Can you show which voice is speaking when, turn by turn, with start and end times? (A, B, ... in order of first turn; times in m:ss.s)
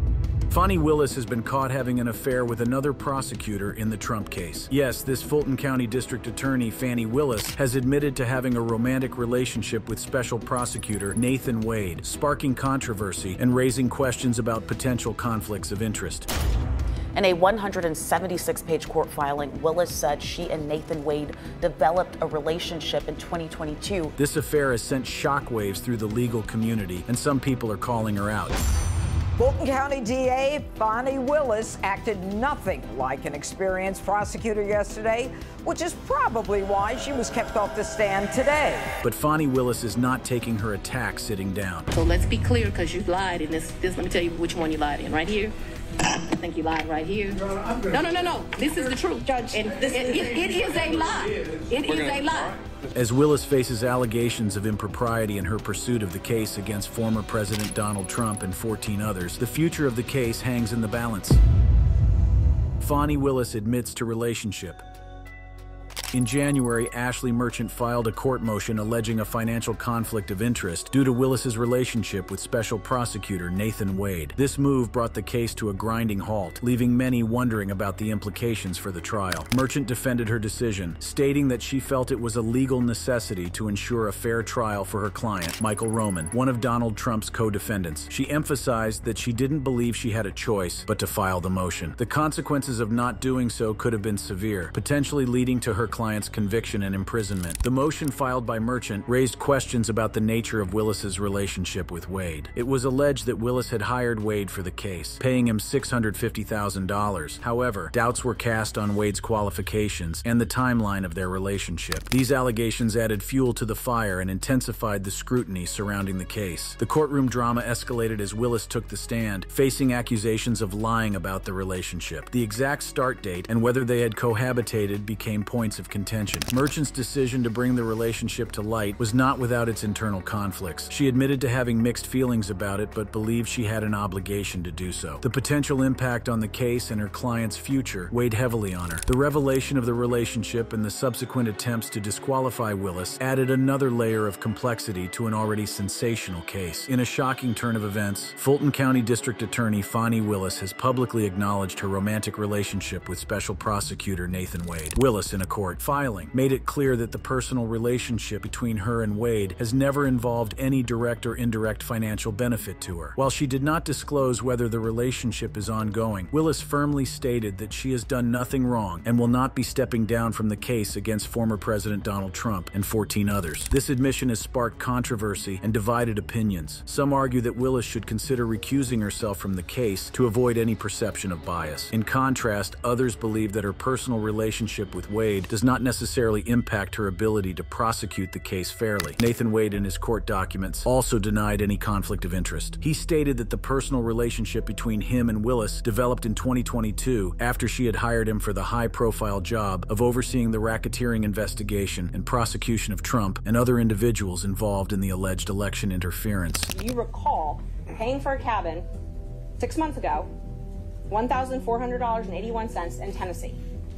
0:00.5-0:16.3 A
0:17.1-0:24.2 B
0:24.2-0:28.6 A
0:29.4-0:38.9 C
0:39.0-0:41.9 A
0:41.9-0:52.6 D
0:49.2-0:50.4 E
0:52.9-1:01.4 A
1:02.8-1:04.8 A
1:06.1-3:26.7 A
3:26.7-3:28.9 E
3:29.6-3:30.3 E
3:31.1-3:33.6 E